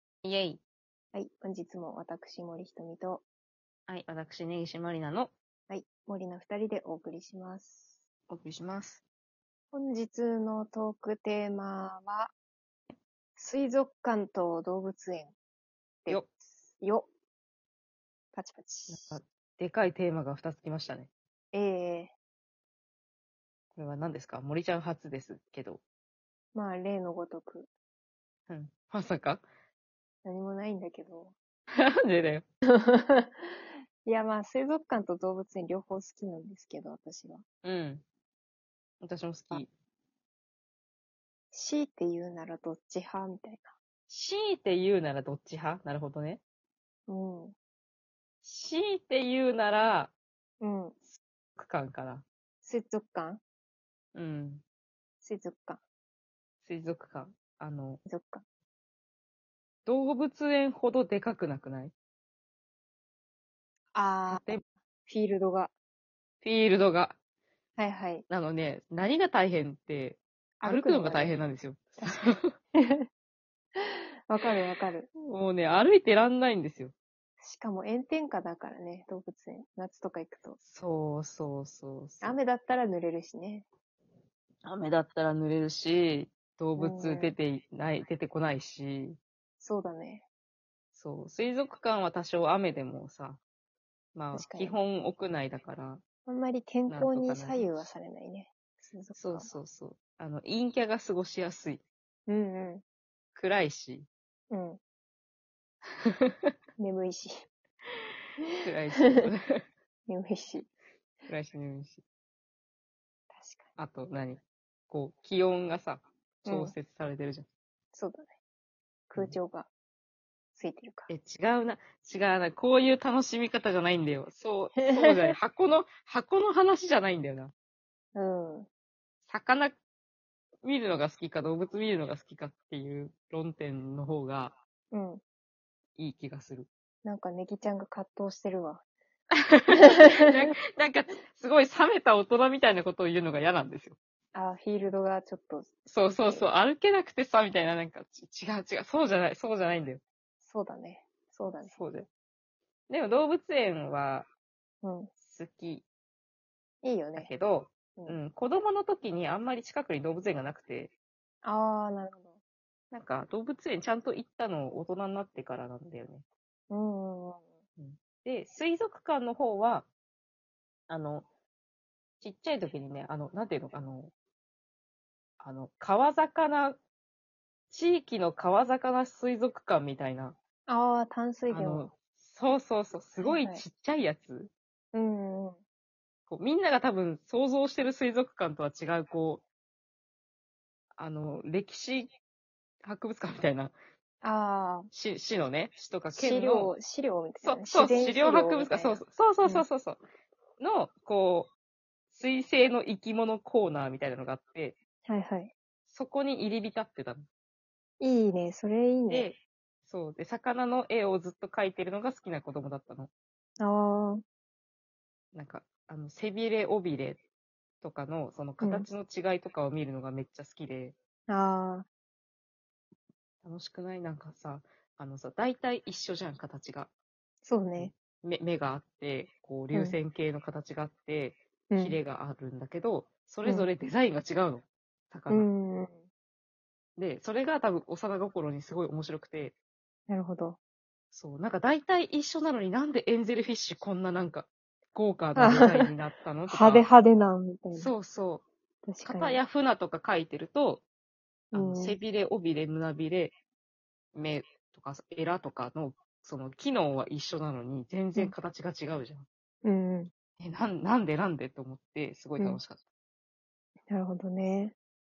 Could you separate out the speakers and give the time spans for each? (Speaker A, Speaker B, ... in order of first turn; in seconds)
Speaker A: 0.2-0.6, 3.9-5.3, 8.3-9.0, 18.9-21.1, 23.7-25.8, 28.5-29.4, 31.7-32.5, 37.6-38.0, 39.0-39.7, 44.1-46.4, 48.4-50.1, 51.5-52.2, 54.1-54.6, 56.6-58.0, 59.9-61.9, 64.3-64.6, 66.4-67.2, 68.3-72.5, 75.2-77.0, 80.6-82.4, 84.6-89.2, 90.9-93.4, 94.1-96.0, 96.9-97.8, 99.2-101.8, 103.3-104.1, 106.0-106.5, 108.6-109.6, 111.3-112.0, 113.8-117.5, 121.1-127.5, 129.2-129.8, 130.6-134.6, 136.0-136.7, 139.5-144.0, 145.9-150.0, 151.7-152.1, 152.9-154.3, 155.2-155.8, 157.2-160.9, 162.9-166.2, 167.8-169.9, 170.9-171.3, 172.2-174.1, 175.4-176.8, 177.7-180.4, 181.5-184.5, 186.3-189.4, 191.0-192.2, 192.8-193.8, 194.9-196.8, 197.4-200.0, 200.6-201.5, 202.1-204.8, 205.9-207.3, 209.1-213.1, 215.3-217.2, 217.8-221.0, 223.4-226.9, 227.8-235.5, 237.0-239.6, 241.1-246.9, 247.7-248.4, 249.0-250.8, 251.5-253.3, 254.1-259.3, 260.4-262.8
Speaker B: 1.1-3.2, 5.7-8.0, 9.7-12.3, 13.4-15.3, 16.0-17.1, 18.3-19.2, 21.5-22.1, 26.5-27.7, 30.2-31.3, 32.7-37.5, 41.5-43.8, 47.1-47.5, 50.6-51.1, 52.6-53.4, 55.2-55.8, 58.0-58.5, 63.9-65.7, 67.8-68.2, 70.6-71.4, 72.0-73.1, 73.8-75.1, 77.4-80.6, 82.2-83.7, 86.8-87.3, 89.6-90.2, 94.3-94.8, 96.2-99.5, 102.3-102.8, 104.5-104.8, 106.8-107.5, 109.0-109.2, 110.1-110.7, 113.3-113.7, 116.5-116.8, 117.9-118.3, 119.1-119.7, 120.5-121.1, 124.8-125.4, 128.2-128.7, 134.9-135.2, 137.0-138.8, 139.7-140.5, 144.3-145.7, 150.4-151.8, 154.8-155.1, 156.8-157.3, 161.4-162.4, 166.7-167.6, 180.7-181.8, 183.2-183.6, 184.9-185.6, 194.2-194.9, 196.1-199.7, 205.1-205.5, 208.0-209.3, 213.6-214.2, 218.6-218.9, 221.3-221.9, 227.4-227.9, 231.7-232.0, 235.3-236.1, 240.1-240.6, 245.3-245.9, 246.5-247.9, 248.8-249.4, 251.5-252.0, 259.6-260.1, 263.9-264.7